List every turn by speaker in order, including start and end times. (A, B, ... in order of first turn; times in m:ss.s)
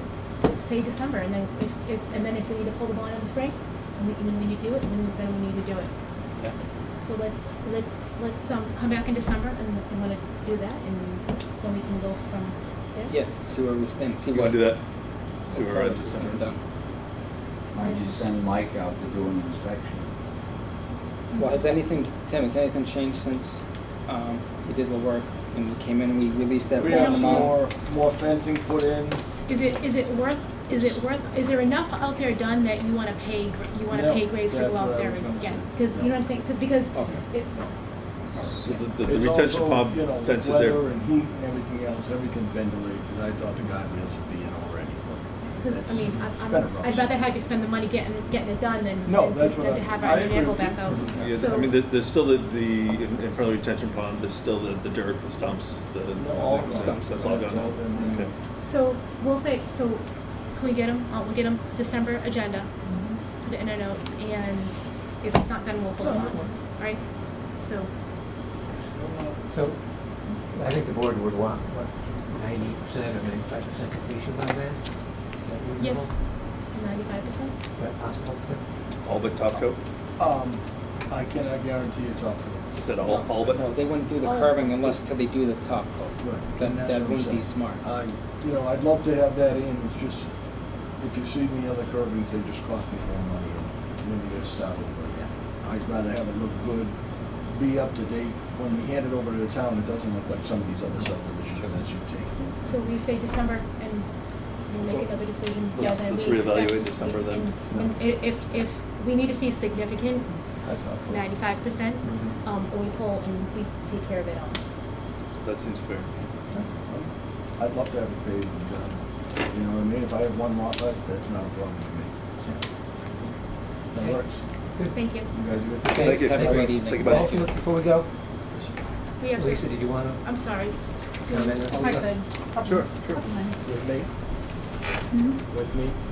0:00.4-0:05.9 A
0:07.0-0:13.1 A
0:13.1-0:14.7 B
0:14.3-0:14.8 C
0:15.3-0:16.5 C
0:15.5-0:16.6 B
0:17.7-0:20.1 D
0:21.3-0:21.7 A
0:21.4-0:27.5 B
0:26.8-0:29.2 E
0:26.9-0:27.5 A
0:29.5-0:37.7 A
0:33.9-0:36.1 E
0:36.9-0:37.2 B
0:38.4-0:40.8 C
0:39.0-0:47.1 E
0:45.6-0:51.7 A
0:49.0-0:51.3 E
0:50.9-0:58.3 C
0:56.1-0:58.3 E
0:56.7-0:57.1 B
0:58.6-1:02.7 A
1:03.4-1:07.9 A
1:06.0-1:06.5 F
1:08.7-1:09.4 E
1:09.5-1:16.1 F
1:15.8-1:17.5 A
1:17.7-1:18.6 F
1:19.0-1:19.8 C
1:20.2-1:23.3 E
1:22.7-1:23.6 C
1:23.5-1:27.8 B
1:24.2-1:25.0 A
1:26.2-1:30.2 E
1:31.0-1:36.9 E
1:37.5-1:42.5 E
1:42.6-1:50.4 A
1:45.7-1:47.5 C
1:50.6-1:51.2 E
1:51.1-1:54.6 A
1:52.0-1:52.4 F
1:55.3-1:56.1 C
1:56.5-2:02.6 E
2:03.9-2:04.4 E
2:04.8-2:05.1 F
2:04.9-2:05.3 A
2:05.3-2:06.2 E
2:05.8-2:08.1 F
2:05.9-2:07.2 C
2:05.9-2:07.5 B
2:08.5-2:08.8 E
2:09.2-2:12.2 A
2:09.3-2:10.6 F
2:11.3-2:12.1 F
2:11.7-2:13.7 G
2:12.6-2:14.1 E
2:15.1-2:15.4 G
2:15.5-2:16.0 E